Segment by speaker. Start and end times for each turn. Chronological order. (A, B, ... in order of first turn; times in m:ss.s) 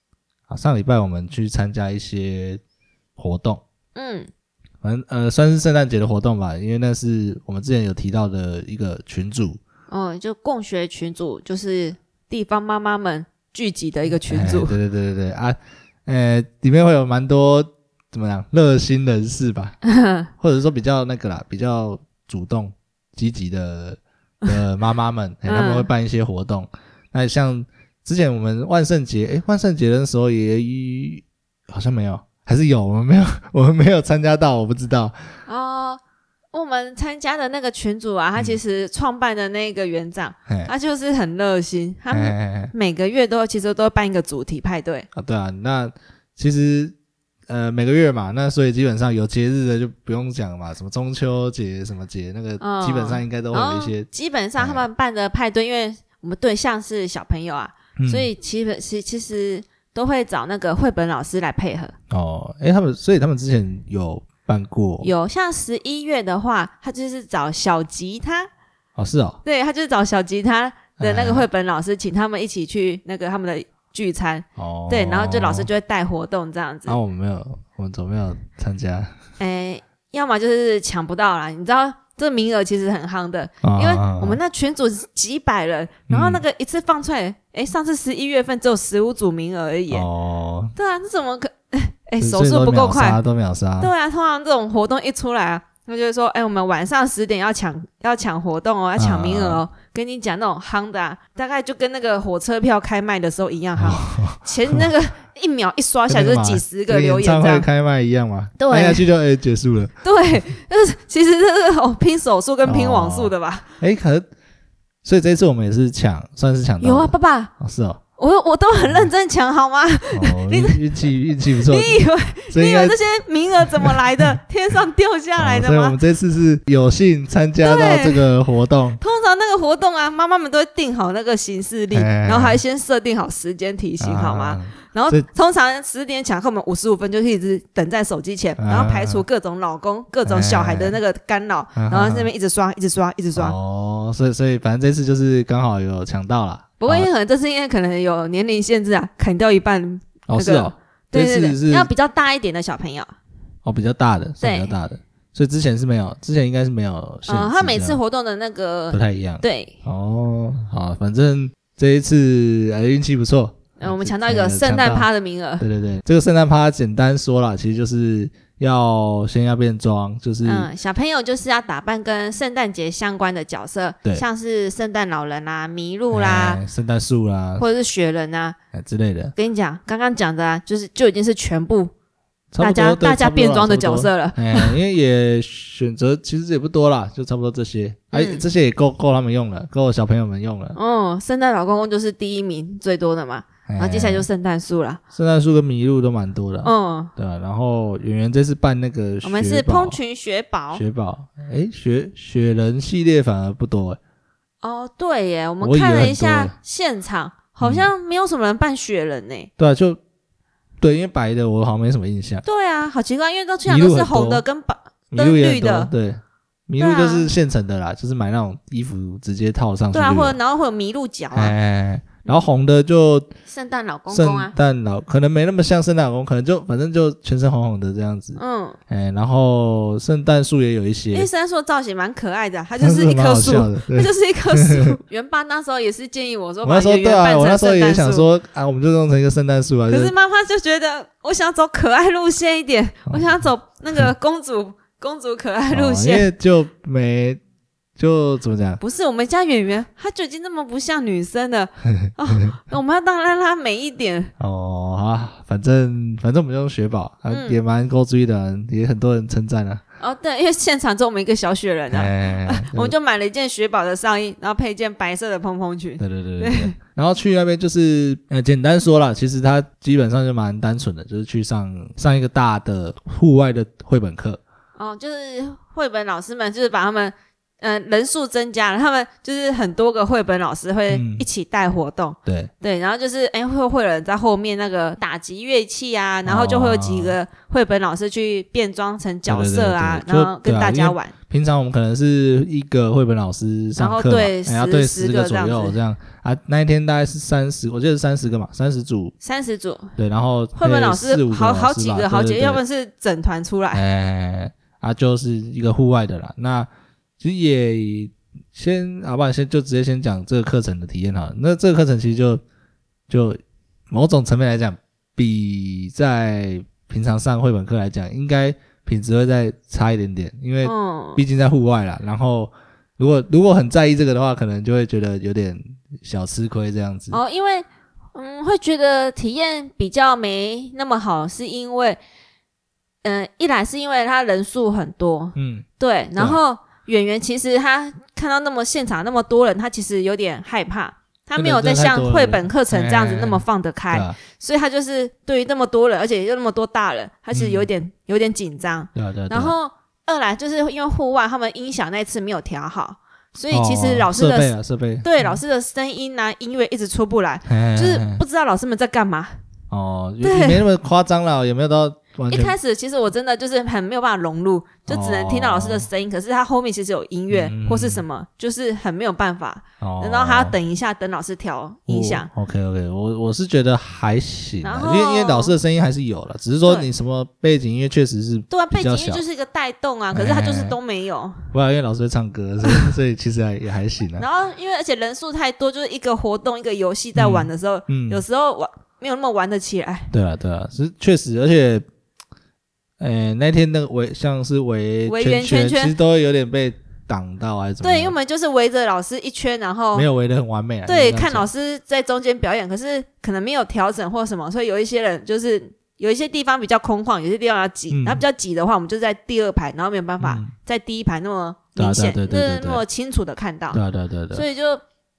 0:00.5-0:02.6 A
0:03.2-0:03.6 A
0:04.0-0:04.3 B
0:04.8-0:09.6 A
0:09.9-0:14.8 B
0:14.3-0:19.8 A
0:19.8-0:20.3 B
0:20.4-0:35.2 A
0:25.5-0:25.9 B
0:35.5-0:36.0 B
0:36.5-0:45.1 B
0:42.1-0:42.7 A
0:45.1-0:46.9 A
0:47.5-0:54.1 A
0:52.6-1:02.0 B
0:54.6-0:54.9 A
0:58.0-0:58.3 A
1:02.1-1:05.1 A
1:05.0-1:08.5 B
1:09.0-1:09.4 A
1:09.4-1:17.0 B
1:11.0-1:11.5 A
1:14.6-1:15.7 A
1:16.9-1:19.1 A
1:19.4-1:30.1 B
1:23.6-1:24.4 A
1:26.1-1:26.4 A
1:29.9-1:30.7 A
1:30.8-1:33.2 B
1:32.2-1:33.9 A
1:33.8-1:47.7 B
1:39.0-1:39.6 A
1:43.8-1:44.9 A
1:46.1-1:50.4 A
1:48.6-1:49.1 B
1:50.0-1:53.7 B
1:52.6-1:54.3 A
1:55.0-1:58.0 A
1:56.8-1:57.5 B
1:58.2-2:00.8 B
1:58.8-1:59.1 A
2:00.1-2:03.0 A
2:01.6-2:06.0 B
2:03.7-2:04.4 A
2:05.4-2:09.0 A
2:07.6-2:08.3 B
2:09.0-2:23.6 B
2:11.9-2:12.6 A
2:14.0-2:15.3 A
2:18.6-2:19.2 A
2:20.3-2:21.0 A
2:21.8-2:22.3 A
2:23.4-2:27.1 A
2:26.8-2:33.2 B
2:30.3-2:31.9 A
2:33.6-2:38.0 A
2:34.4-2:34.7 B
2:37.3-2:39.8 B
2:38.9-2:45.1 A
2:43.8-2:45.6 B
2:45.6-2:50.7 A
2:50.4-2:56.6 B
2:56.1-2:57.7 A
2:57.6-2:58.6 B
2:58.7-2:59.3 A
2:59.4-3:01.9 B
3:02.5-3:10.8 A
3:02.6-3:04.8 B
3:08.1-3:08.4 B
3:10.8-3:15.0 B
3:13.7-3:14.3 A
3:15.1-3:20.0 A
3:16.6-3:17.1 B
3:19.2-3:20.8 B
3:20.7-3:24.0 A
3:24.6-3:29.5 B
3:25.6-3:26.5 A
3:27.6-3:27.9 A
3:29.6-3:30.0 A
3:30.8-3:32.4 A
3:32.4-3:35.9 B
3:33.7-3:34.4 A
3:35.1-3:40.4 A
3:36.8-3:37.3 B
3:39.9-3:41.6 B
3:41.3-3:43.3 A
3:43.5-3:44.5 B
3:44.1-3:51.3 A
3:48.4-3:48.8 B
3:51.1-3:58.3 B
3:52.8-3:55.0 A
3:56.6-4:00.1 A
3:59.9-4:06.3 B
4:03.1-4:03.4 A
4:05.7-4:07.4 A
4:08.0-4:08.8 A
4:08.8-4:14.3 B
4:11.8-4:12.5 A
4:14.4-4:19.8 A
4:17.3-4:17.6 B
4:20.0-4:26.7 B
4:21.9-4:23.0 A
4:26.0-4:34.4 A
4:34.8-4:51.1 B
4:40.9-4:41.2 A
4:42.3-4:42.5 A
4:46.3-4:47.2 A
4:49.3-4:59.1 A
4:53.8-4:55.8 B
4:59.2-4:59.9 B
5:00.0-5:02.6 A
5:00.6-5:03.8 B
5:03.7-5:06.7 A
5:07.2-5:12.4 A
5:13.1-5:13.4 A
5:13.9-5:27.2 A
5:20.6-5:21.2 B
5:27.1-5:32.0 B
5:33.0-5:54.5 B
5:35.4-5:35.7 A
5:41.4-5:44.2 A
5:47.3-5:47.7 A
5:49.0-5:49.5 A
5:53.5-5:55.4 A
5:55.0-5:59.4 B
5:57.5-5:58.2 A
5:59.7-6:02.6 A
6:00.2-6:00.6 B
6:02.3-6:12.3 B
6:04.9-6:05.9 A
6:07.3-6:08.0 A
6:09.8-6:10.6 A
6:11.9-6:19.2 A
6:14.6-6:15.5 B
6:18.5-6:21.5 B
6:20.1-6:20.8 A
6:21.5-6:24.3 A
6:22.6-6:22.9 B
6:24.2-6:30.1 B
6:27.2-6:28.2 A
6:30.1-6:31.8 A
6:33.0-6:38.2 A
6:35.1-6:35.9 B
6:37.8-6:40.1 B
6:39.9-6:41.5 A
6:40.9-6:53.8 B
6:47.9-6:48.2 A
6:50.2-6:50.5 A
6:51.8-6:52.8 A
6:53.7-6:54.5 A
6:54.3-6:54.8 B